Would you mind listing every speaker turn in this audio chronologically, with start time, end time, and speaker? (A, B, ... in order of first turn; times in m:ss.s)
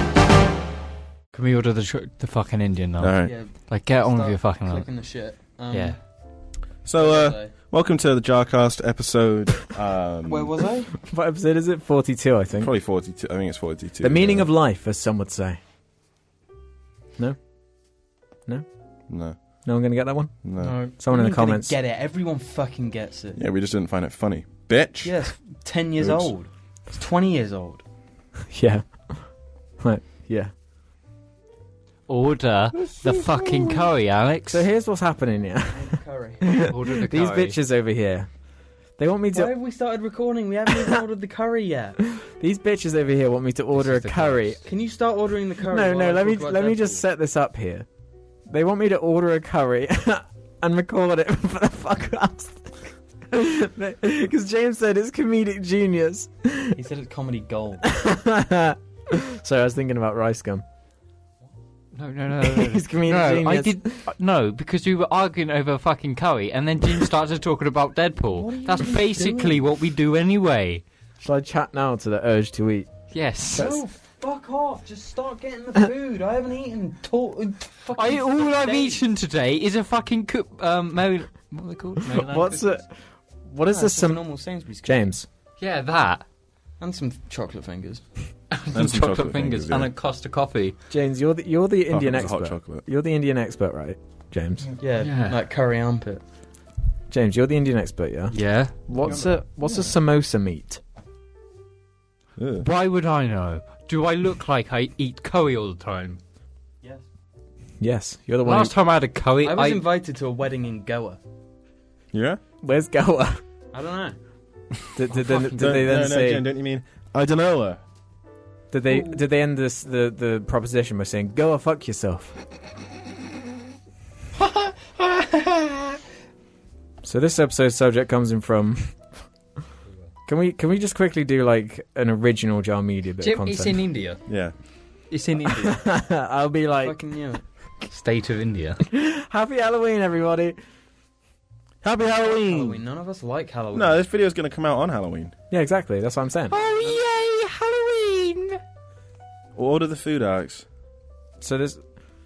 0:01.3-0:04.9 A
0:03.0-0:03.4 B
0:03.2-0:06.0 C
0:05.7-0:06.0 A
0:06.8-0:10.5 B
0:07.0-0:07.5 C
0:10.2-0:10.9 C
0:11.0-0:12.7 D
0:12.6-0:14.5 B
0:14.0-0:15.6 D
0:19.1-0:19.4 B
0:19.6-0:20.3 D
0:20.4-0:20.8 B
0:20.6-0:23.4 C
0:21.0-0:21.8 D
0:23.4-0:25.2 B
0:25.0-0:27.8 C
0:26.0-0:26.3 B
0:28.5-0:29.2 D
0:29.8-0:30.5 D
0:32.1-0:34.6 A
0:32.8-0:33.8 B
0:34.5-0:38.3 D
0:35.7-0:36.6 C
0:36.6-0:37.6 A
0:39.0-0:39.5 D
0:39.3-0:42.0 C
0:42.1-0:44.6 D
0:43.7-0:44.6 A
0:44.6-0:47.0 C
0:45.6-0:47.8 D
0:48.5-0:52.7 D
0:53.3-0:56.8 D
0:56.7-0:57.9 C
0:57.8-1:00.6 D
1:01.9-1:10.8 A
1:02.4-1:04.1 D
1:08.3-1:09.6 C
1:11.2-1:12.9 D
1:13.1-1:13.7 A
1:13.5-1:13.8 D
1:13.5-1:19.0 C
1:17.9-1:22.8 A
1:22.1-1:22.9 D
1:23.4-1:24.2 D
1:23.7-1:25.1 C
1:24.8-1:25.2 D
1:25.6-1:26.2 A
1:26.8-1:28.0 C
1:28.5-1:30.8 A
1:28.7-1:29.9 B
1:30.9-1:34.7 D
1:31.9-1:32.8 B
1:34.8-1:36.2 C
1:35.0-1:35.4 A
1:37.1-1:40.8 D
1:38.3-1:38.7 A
1:39.0-1:39.9 B
1:42.4-1:42.7 B
1:42.6-1:46.2 A
1:47.8-1:48.8 D
1:48.4-1:49.8 A
1:49.4-1:51.2 C
1:52.1-1:52.4 B
1:52.6-1:53.4 D
1:53.7-1:54.2 C
1:54.9-1:56.4 D
1:55.1-1:55.7 A
1:55.6-1:57.8 B
1:58.7-2:02.4 D
2:04.4-2:06.0 A
2:07.0-2:09.1 D
2:10.3-2:13.8 D
2:13.2-2:14.2 A
2:14.3-2:14.5 B
2:15.1-2:15.8 A
2:15.4-2:17.0 D
2:16.8-2:17.4 C
2:17.8-2:18.8 A
2:18.9-2:20.6 D
2:21.8-2:22.8 B
2:22.2-2:24.0 C
2:23.7-2:25.3 B
2:25.5-2:26.6 D
2:26.5-2:28.6 A
2:26.5-2:27.0 C
2:29.6-2:30.6 B
2:31.4-2:31.8 D